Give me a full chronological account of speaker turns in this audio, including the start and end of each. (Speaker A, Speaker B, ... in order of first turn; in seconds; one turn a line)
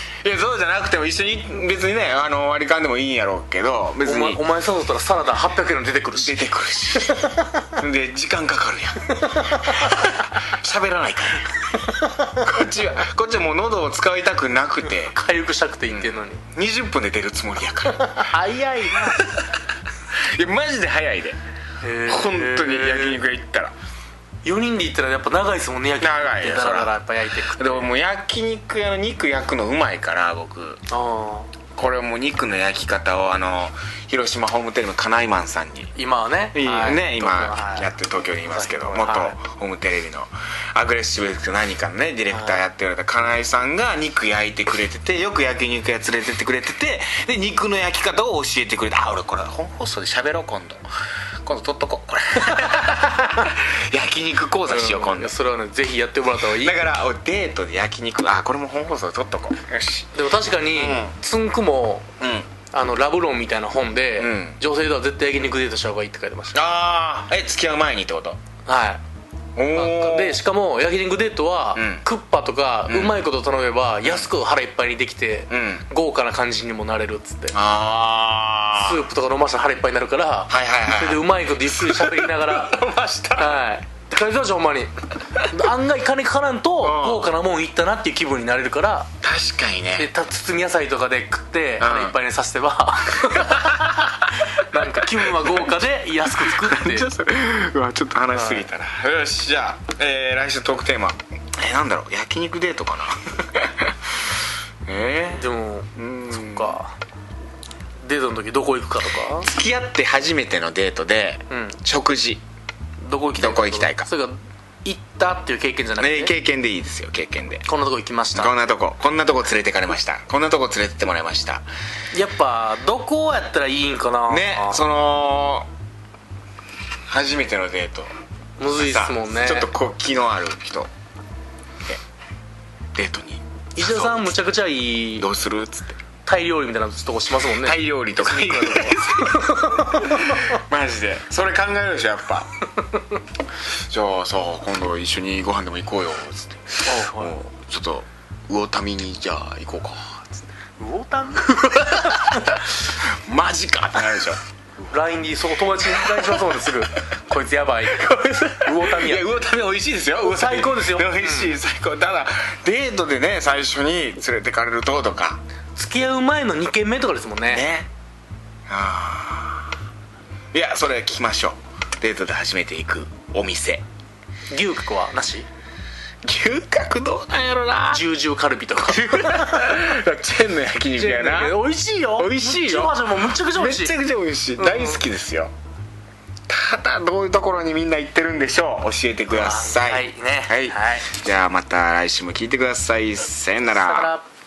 Speaker A: 0.2-4.4
Speaker B: 4.0-6.4
Speaker A: 6.1-11.6
Speaker B: 6.9-7.7
Speaker B: 9.2-10.0
Speaker A: 12.3-15.1
Speaker B: 15.1-16.4
Speaker A: 15.9-18.3
Speaker B: 18.0-19.3
Speaker A: 19.0-19.5
Speaker A: 20.1-21.4
Speaker B: 21.8-23.2
Speaker A: 22.1-23.7
Speaker B: 24.4-27.9
Speaker A: 26.0-27.0
Speaker A: 27.6-30.8
Speaker B: 30.9-31.5
Speaker A: 31.7-35.9
Speaker B: 36.0-37.9
Speaker A: 36.5-50.8
Speaker B: 38.5-39.4
Speaker B: 42.3-42.6
Speaker A: 51.4-55.3
Speaker B: 54.7-56.8
Speaker A: 56.5-61.1
Speaker B: 60.1-62.1
Speaker A: 62.2-62.5
Speaker B: 62.7-66.6
Speaker A: 64.2-64.6
Speaker A: 66.5-68.4
Speaker B: 68.7-69.0
Speaker A: 69.5-70.4
Speaker B: 69.7-77.5
Speaker A: 71.7-72.0
Speaker A: 72.9-73.2
Speaker A: 75.5-75.9
Speaker A: 77.5-79.0
Speaker B: 78.8-82.8
Speaker A: 80.5-83.6
Speaker B: 83.4-89.1
Speaker A: 86.8-87.3
Speaker A: 89.2-90.1
Speaker B: 90.0-97.1
Speaker A: 91.8-92.2
Speaker A: 93.2-94.0
Speaker A: 94.7-95.7
Speaker A: 96.3-104.0
Speaker B: 98.3-98.7
Speaker A: 104.8-106.7
Speaker B: 105.3-106.9
Speaker B: 108.0-109.5
Speaker A: 109.4-112.4
Speaker B: 111.5-111.8
Speaker B: 113.0-116.3
Speaker A: 113.3-114.1
Speaker A: 116.0-117.7
Speaker B: 117.7-118.5
Speaker A: 118.3-121.7
Speaker B: 122.1-124.8
Speaker A: 124.3-125.7
Speaker A: 127.1-128.1
Speaker B: 128.6-129.7
Speaker A: 128.8-130.9
Speaker A: 132.9-134.4
Speaker B: 133.8-135.3
Speaker A: 135.2-136.0
Speaker B: 136.2-140.4
Speaker A: 137.6-142.5
Speaker A: 143.7-150.4
Speaker B: 146.8-147.4
Speaker B: 150.8-152.5
Speaker A: 151.8-154.4
Speaker B: 154.9-159.3
Speaker A: 155.8-156.5
Speaker A: 157.9-165.4
Speaker B: 160.2-161.5
Speaker B: 165.8-167.6
Speaker A: 167.4-167.9
Speaker A: 168.7-169.7
Speaker A: 170.5-173.8
Speaker B: 174.5-175.5
Speaker A: 176.2-178.0
Speaker B: 177.9-179.9
Speaker A: 178.8-185.5
Speaker B: 181.0-184.0
Speaker B: 184.6-185.0
Speaker A: 186.5-194.1
Speaker B: 189.3-191.1
Speaker B: 193.7-194.2